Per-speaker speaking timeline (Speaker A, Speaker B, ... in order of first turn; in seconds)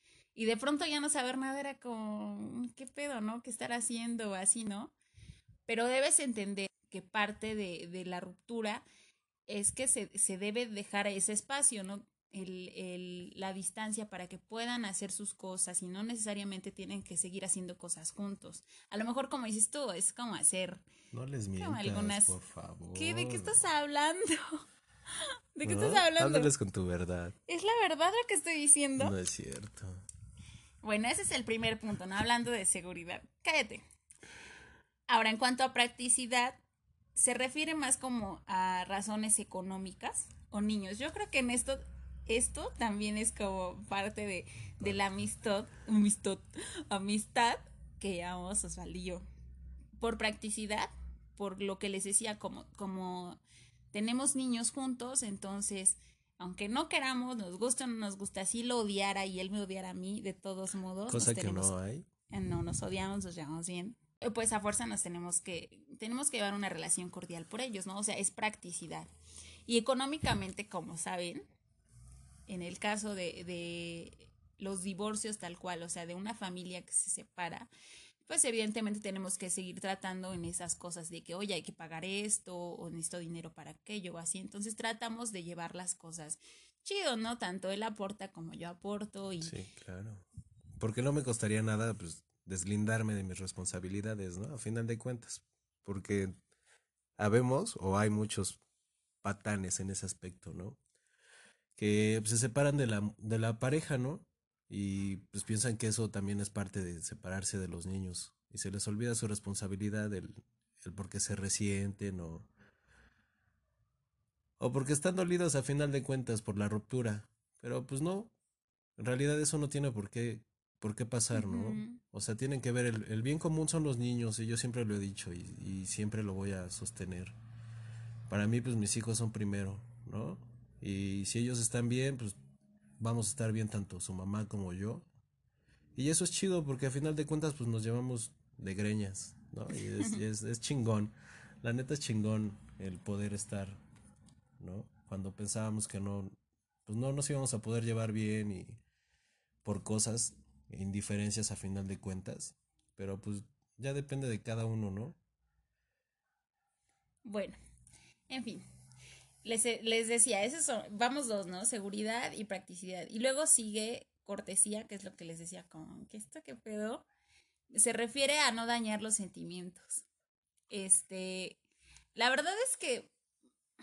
Speaker A: 0.3-4.9, 5.7-8.8, 9.5-20.9, 21.6-22.3, 22.9-24.6, 25.5-26.5, 27.5-29.1, 30.8-33.8, 35.1-36.6, 37.1-49.2, 50.0-53.4, 53.9-61.7, 62.3-69.1, 69.7-71.5, 72.5-77.7, 78.3-89.6, 121.3-122.0, 157.2-157.6, 158.3-158.6, 159.4-167.1, 167.7-170.0, 170.7-171.6, 172.1-173.1
Speaker B: 21.1-23.6, 25.6-27.3, 29.0-30.0, 61.1-62.1, 89.4-90.2, 90.8-96.4, 97.2-98.6, 99.2-100.8, 101.8-112.5, 114.6-118.3, 119.0-127.3, 128.3-132.4, 133.0-135.1, 135.9-143.8, 144.6-148.8, 149.6-155.2